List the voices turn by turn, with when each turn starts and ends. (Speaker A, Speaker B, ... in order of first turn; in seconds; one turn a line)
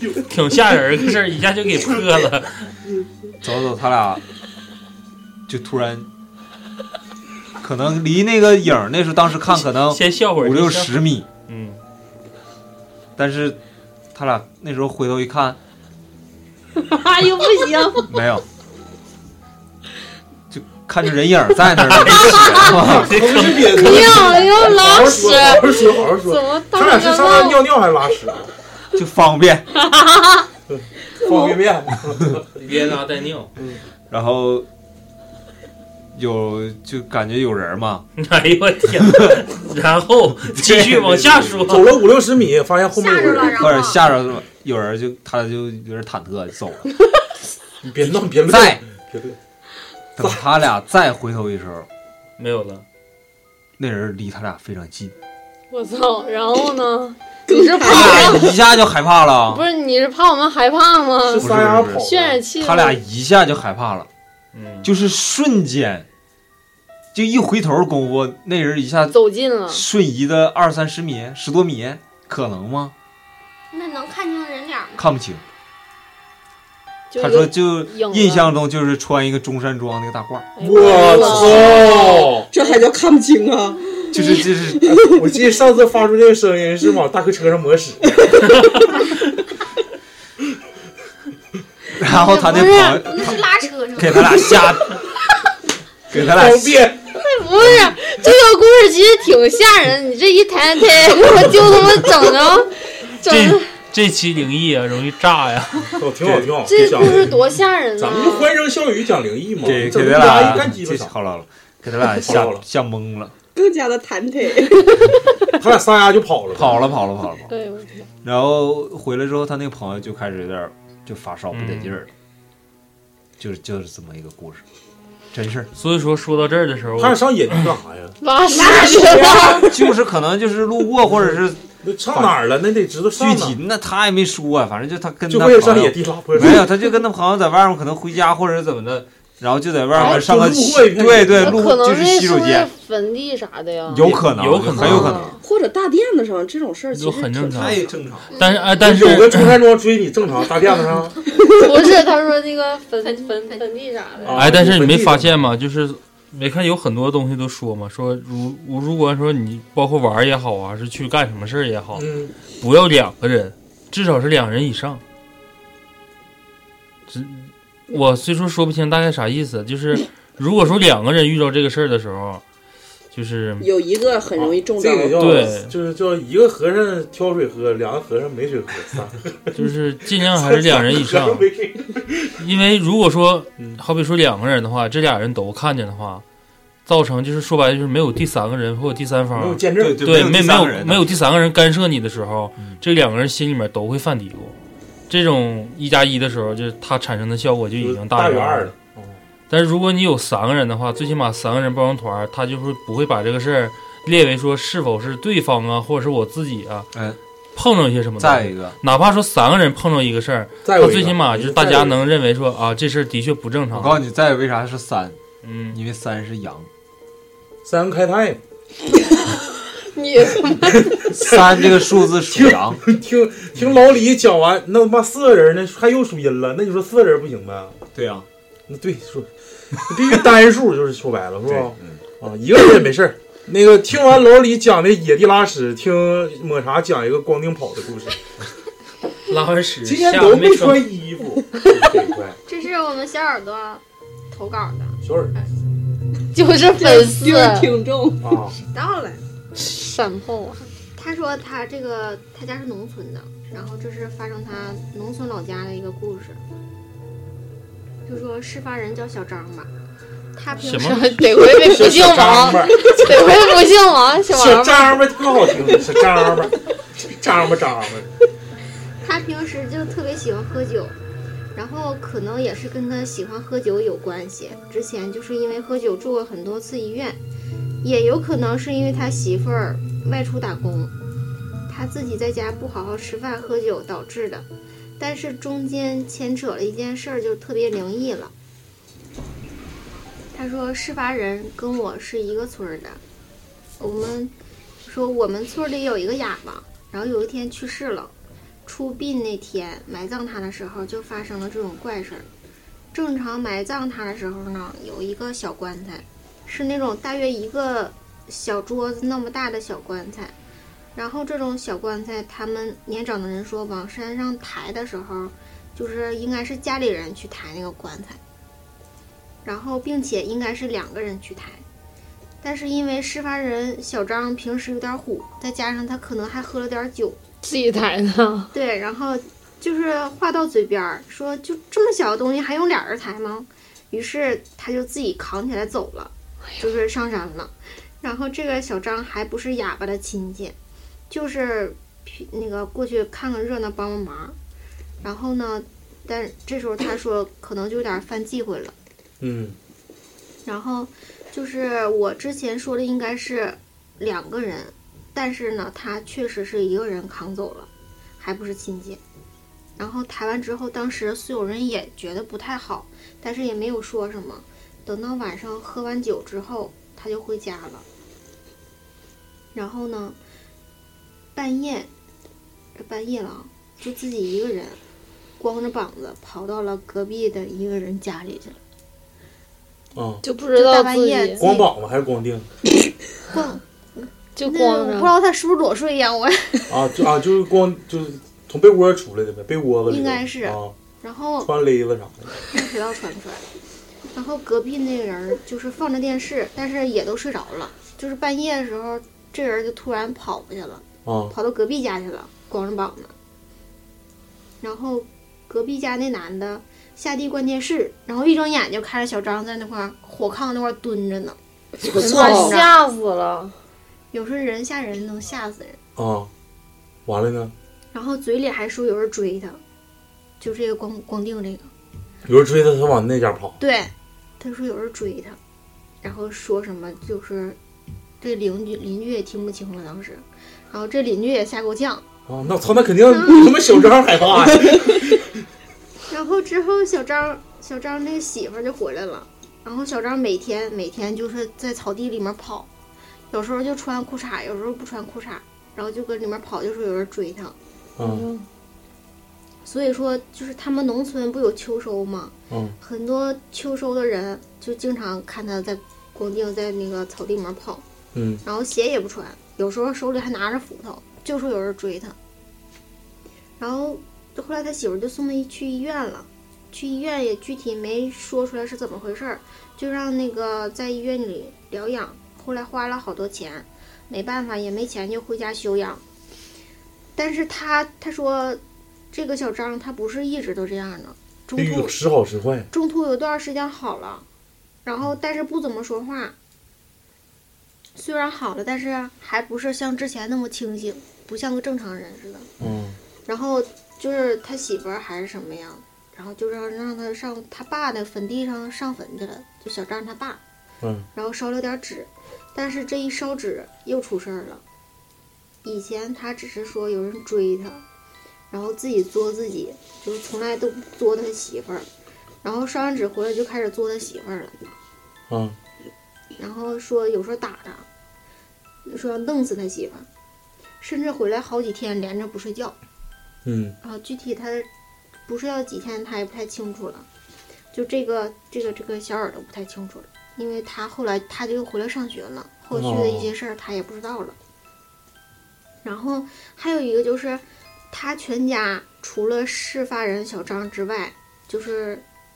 Speaker A: 0.3-2.7
Speaker B: 3.4-4.2
Speaker B: 5.5-6.1
Speaker B: 7.6-11.3
Speaker A: 9.9-11.8
Speaker B: 13.2-13.6
Speaker B: 14.1-15.6
Speaker C: 16.8-18.1
Speaker B: 18.1-18.4
Speaker B: 20.5-23.3
Speaker A: 21.8-23.9
Speaker C: 22.3-22.8
Speaker D: 22.6-28.5
Speaker C: 23.6-27.6
Speaker B: 28.9-29.7
Speaker C: 29.8-30.4
Speaker D: 30.7-32.5
Speaker A: 32.5-33.5
Speaker B: 34.1-34.7
Speaker B: 36.1-38.0
Speaker A: 38.2-42.0
Speaker B: 40.5-41.7
Speaker D: 41.6-43.7
Speaker E: 42.9-44.0
Speaker B: 43.4-46.9
Speaker D: 47.8-49.4
Speaker B: 48.0-48.8
Speaker B: 50.1-51.9
Speaker A: 52.4-52.8
Speaker B: 53.8-55.1
Speaker C: 55.7-58.6
Speaker F: 57.5-58.5
Speaker B: 57.9-59.6
Speaker C: 59.5-63.0
Speaker D: 61.2-62.4
Speaker B: 61.4-64.1
Speaker A: 64.5-64.9
Speaker B: 64.8-66.1
Speaker B: 67.1-69.2
Speaker C: 69.1-69.8
Speaker B: 69.7-72.9
Speaker E: 73.7-75.0
Speaker B: 75.0-75.4
Speaker C: 77.1-78.5
Speaker B: 77.2-81.5
Speaker C: 80.5-82.8
Speaker D: 80.6-82.5
Speaker F: 80.9-81.7
Speaker F: 82.5-84.2
Speaker B: 84.1-85.0
Speaker D: 84.9-88.3
Speaker B: 91.9-95.0
Speaker C: 92.1-93.0
Speaker E: 92.3-94.8
Speaker B: 96.1-96.8
Speaker D: 96.1-97.1
Speaker C: 97.1-103.7
Speaker B: 97.6-97.9
Speaker A: 103.2-106.0
Speaker D: 106.0-107.4
Speaker B: 106.2-106.5
Speaker C: 106.6-108.5
Speaker D: 108.0-111.1
Speaker B: 109.6-113.3
Speaker D: 112.2-112.6
Speaker F: 113.5-115.0
Speaker D: 115.6-116.8
Speaker B: 116.5-117.5
Speaker C: 117.5-118.1
Speaker B: 118.2-122.1
Speaker A: 121.5-122.0
Speaker B: 123.4-124.6
Speaker B: 125.3-125.7
Speaker A: 125.7-127.7
Speaker D: 127.0-128.1
Speaker C: 128.2-129.7
Speaker F: 128.5-129.7
Speaker B: 129.6-131.6
Speaker D: 131.1-133.6
Speaker B: 133.1-142.7
Speaker D: 135.3-136.7
Speaker D: 139.9-141.6
Speaker C: 141.3-144.2
Speaker B: 143.9-145.4
Speaker A: 144.2-145.3
Speaker C: 144.8-145.4
Speaker F: 145.4-147.8
Speaker A: 146.9-147.8
Speaker B: 147.5-148.3
Speaker E: 148.3-148.7
Speaker A: 148.3-149.6
Speaker D: 148.8-151.2
Speaker C: 151.4-154.4
Speaker D: 154.2-155.3
Speaker A: 154.3-165.0
Speaker D: 161.9-162.3
Speaker A: 167.1-172.4
Speaker A: 173.1-173.7
Speaker F: 173.6-175.5
Speaker D: 174.3-182.4
Speaker A: 175.2-175.7
Speaker A: 179.5-181.5
Speaker A: 182.4-186.2
Speaker A: 186.8-194.6
Speaker D: 189.3-190.1
Speaker B: 189.8-191.1
Speaker A: 195.1-198.7
Speaker D: 197.8-199.2
Speaker A: 199.5-206.9
Speaker B: 206.9-207.2
Speaker A: 207.5-214.0
Speaker B: 208.2-208.8
Speaker D: 210.6-212.0
Speaker B: 213.7-215.2
Speaker A: 215.4-215.8
Speaker B: 215.7-216.7
Speaker D: 217.6-218.4
Speaker C: 219.7-221.0
Speaker D: 220.9-221.7
Speaker B: 221.1-222.8
Speaker D: 222.3-227.8
Speaker B: 227.9-228.2
Speaker D: 228.7-238.2
Speaker B: 231.5-232.0
Speaker A: 239.3-240.8
Speaker D: 239.8-242.4
Speaker E: 242.5-245.5
Speaker D: 245.0-245.3
Speaker C: 246.3-247.7
Speaker F: 246.7-248.3
Speaker D: 248.2-248.6
Speaker E: 248.5-249.2
Speaker C: 249.6-250.7
Speaker E: 250.9-256.4
Speaker E: 258.1-259.7
Speaker E: 260.3-261.5
Speaker A: 260.6-261.1
Speaker C: 260.8-265.0
Speaker D: 261.6-263.3
Speaker D: 264.3-268.1
Speaker E: 269.0-270.9
Speaker E: 271.5-277.2
Speaker E: 277.8-280.9
Speaker E: 281.7-284.5
Speaker E: 285.0-288.3
Speaker E: 290.3-293.0
Speaker E: 293.8-294.3
Speaker E: 294.8-298.1
Speaker E: 298.6-302.3
Speaker E: 302.9-310.3
Speaker E: 310.9-318.2
Speaker E: 319.4-321.6
Speaker E: 322.4-327.2
Speaker C: 327.4-328.5
Speaker E: 328.5-340.6
Speaker E: 341.1-344.4
Speaker E: 345.0-348.7
Speaker D: 349.2-349.6
Speaker E: 350.4-359.0
Speaker E: 359.8-367.9
Speaker E: 369.5-370.2
Speaker E: 371.3-371.9
Speaker E: 372.7-374.8
Speaker E: 375.4-378.6
Speaker D: 379.9-380.2
Speaker C: 380.2-381.4
Speaker E: 380.5-381.7
Speaker D: 381.4-382.5
Speaker E: 383.3-386.8
Speaker C: 384.4-385.1
Speaker D: 386.7-390.7
Speaker E: 389.9-391.5
Speaker D: 391.4-392.4
Speaker E: 392.4-393.4
Speaker E: 394.1-403.1
Speaker D: 401.0-401.3
Speaker E: 404.6-411.4
Speaker F: 411.8-412.5
Speaker C: 411.9-413.6
Speaker E: 411.9-412.8
Speaker E: 414.1-415.8
Speaker D: 415.9-416.3
Speaker D: 417.1-417.5
Speaker E: 417.9-419.6
Speaker E: 420.4-421.7
Speaker D: 422.2-423.6
Speaker E: 423.6-425.4
Speaker E: 426.0-427.6
Speaker E: 428.2-432.0
Speaker D: 432.3-435.3
Speaker E: 433.1-433.6
Speaker E: 436.1-442.7
Speaker E: 443.3-447.6
Speaker D: 448.0-448.3
Speaker C: 448.0-448.4
Speaker E: 449.6-457.8
Speaker D: 452.5-452.8
Speaker D: 458.1-458.4
Speaker E: 458.4-462.1
Speaker E: 463.6-476.0
Speaker E: 477.1-478.6
Speaker E: 479.1-481.9
Speaker D: 481.6-482.7
Speaker E: 482.7-484.2
Speaker E: 484.8-486.3
Speaker E: 487.9-492.5
Speaker D: 492.6-493.0
Speaker E: 493.2-500.4
Speaker D: 500.8-501.1
Speaker E: 501.1-504.6
Speaker E: 505.6-507.8
Speaker E: 508.5-511.9
Speaker E: 512.4-514.7
Speaker D: 515.3-515.5
Speaker E: 516.4-517.9
Speaker E: 518.9-520.1
Speaker E: 520.8-522.8
Speaker D: 523.4-523.8
Speaker E: 523.8-524.7
Speaker E: 525.2-527.0
Speaker E: 527.7-534.4
Speaker D: 532.7-533.3
Speaker E: 535.8-542.0